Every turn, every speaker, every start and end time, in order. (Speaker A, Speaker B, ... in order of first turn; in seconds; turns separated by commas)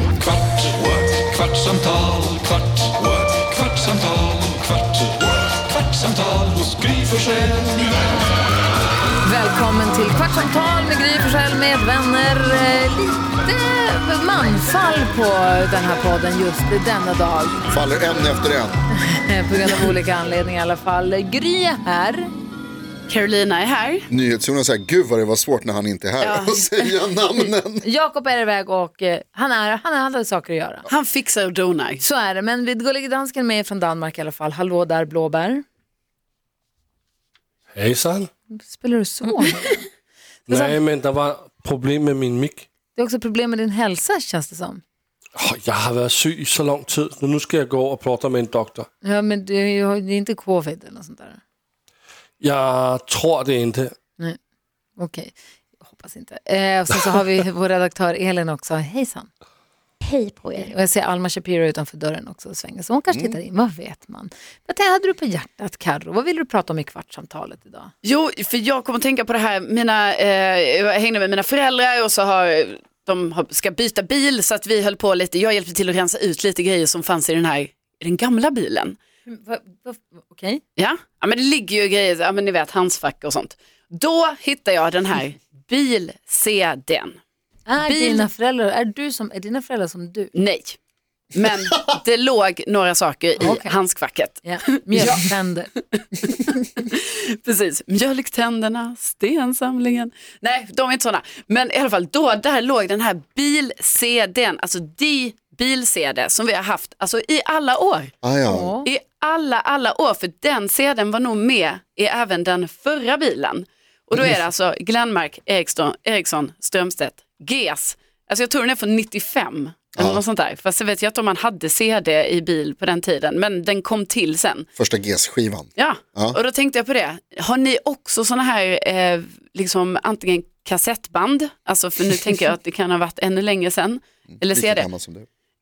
Speaker A: 0.3-7.9, Speaker B: 9.2-17.7, Speaker C: 17.7-18.8, Speaker B: 19.0-22.3, Speaker D: 23.1-24.1, Speaker C: 24.1-27.9, Speaker D: 26.2-26.9, Speaker B: 27.8-30.9, Speaker D: 30.9-32.0, Speaker B: 32.0-35.6, Speaker E: 37.8-38.3, Speaker B: 38.5-39.9, Speaker E: 40.5-42.7, Speaker B: 40.5-40.8, Speaker B: 43.0-44.8, Speaker E: 45.4-48.9, Speaker B: 49.0-51.4, Speaker E: 52.4-54.0, Speaker B: 55.0-59.3, Speaker B: 60.0-67.9, Speaker C: 63.1-63.4, Speaker D: 68.0-79.0, Speaker B: 79.3-80.6, Speaker D: 80.8-87.2, Speaker B: 87.7-90.3, Speaker D: 87.8-88.3, Speaker D: 90.3-90.8, Speaker D: 91.3-95.2, Speaker B: 93.4-93.8, Speaker B: 94.4-95.7, Speaker D: 96.2-108.1, Speaker C: 108.2-108.8, Speaker B: 108.5-108.9, Speaker D: 108.8-124.7, Speaker C: 120.0-120.2, Speaker C: 124.8-126.4, Speaker D: 125.8-134.9, Speaker C: 134.4-135.3